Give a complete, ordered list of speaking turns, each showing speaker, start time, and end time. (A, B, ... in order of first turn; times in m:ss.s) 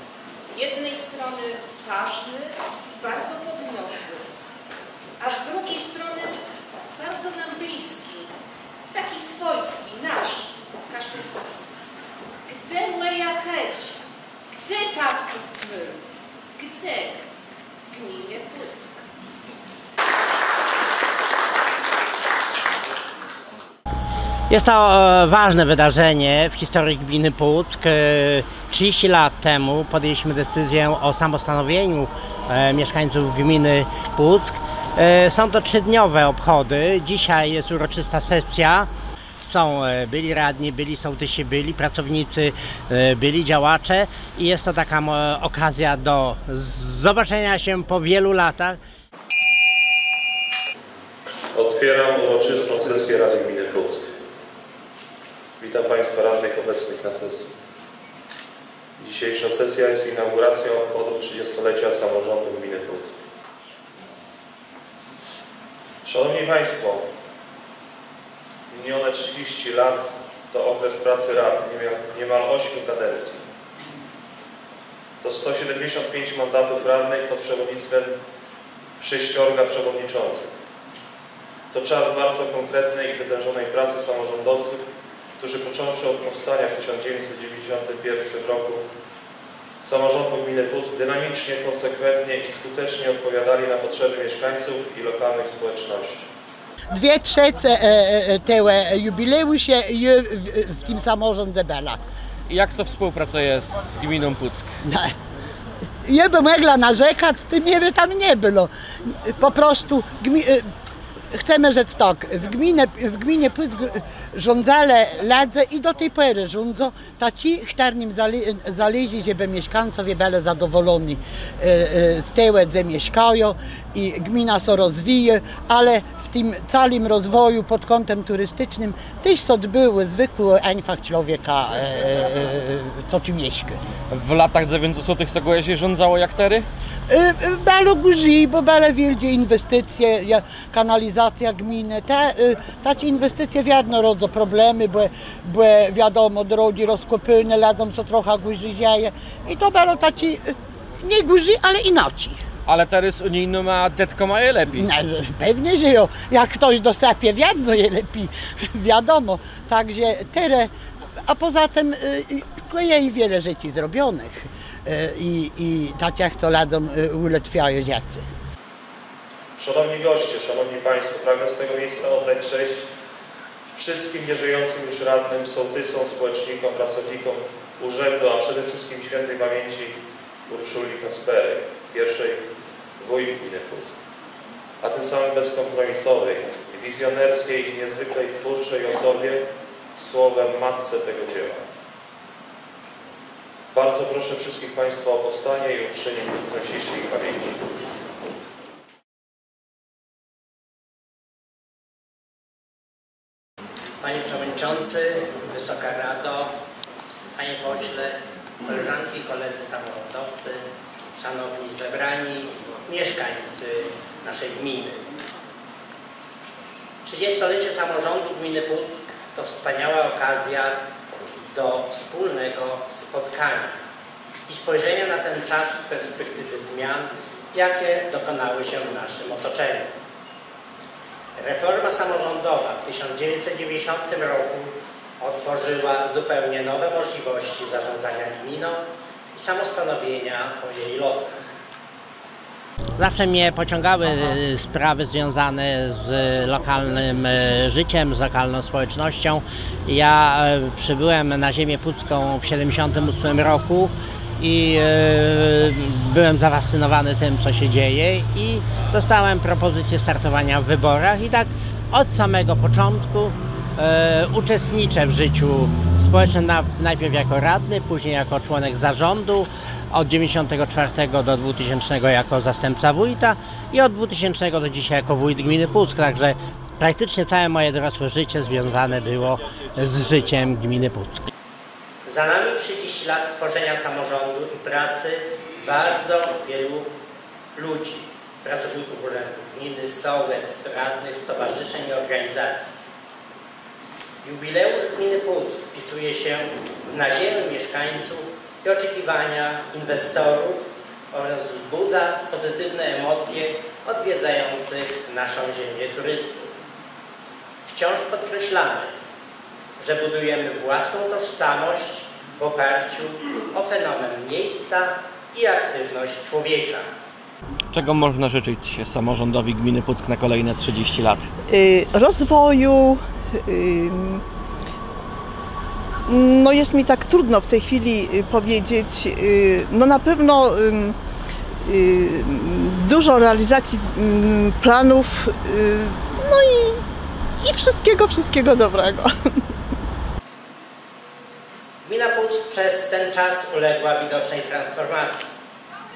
0:00.4-0:04.3 A
0:05.2-0:06.4 A
0:07.0-0:08.3 A
0:08.9-0:11.5 A
0:12.5-0:14.0 A
0:14.6-0:16.0 A
0:16.6-0:17.2 A
0:17.9-0:19.0 A
0:24.5-0:38.9 B
0:39.4-0:48.8 B
0:51.5-0:54.1 C
0:55.6-0:57.5 C
0:59.0-1:03.2 C
1:06.0-1:07.0 C
1:08.7-1:13.4 C
1:15.2-1:18.1 C
1:19.0-1:20.5 C
1:21.7-1:24.8 C
1:25.4-1:28.8 C
1:29.8-1:36.3 C
1:36.9-1:42.0 D
1:42.5-1:44.7 E
1:44.8-1:45.1 D
1:46.0-1:50.6 D
1:51.3-2:13.8 D
2:14.1-2:16.7 E
2:17.1-2:32.4 D
2:32.6-2:34.9 E
2:34.7-2:40.7 D
2:41.3-2:48.2 D
2:49.6-2:52.8 C
2:53.7-3:02.4 C
3:03.0-3:03.9 C
3:04.8-3:09.4 C
3:09.9-3:11.6 C
3:13.7-3:17.6 C
3:24.0-3:26.5 B
3:27.4-3:30.6 B
3:31.2-3:35.0 B
3:37.0-3:40.8 B
3:41.5-3:43.7 B
3:44.5-3:49.9 B
3:51.4-4:01.4 B
4:03.0-4:41.3 B
4:42.0-4:46.9 B
4:47.6-4:52.7 B
4:54.2-5:06.4 B
5:07.7-5:08.9 B
5:09.8-5:16.9 B
5:17.7-5:21.3 E
5:21.5-5:24.2 F
5:26.1-5:30.9 F
5:31.6-5:36.8 F
5:37.4-5:39.1 F
5:41.8-5:45.4 B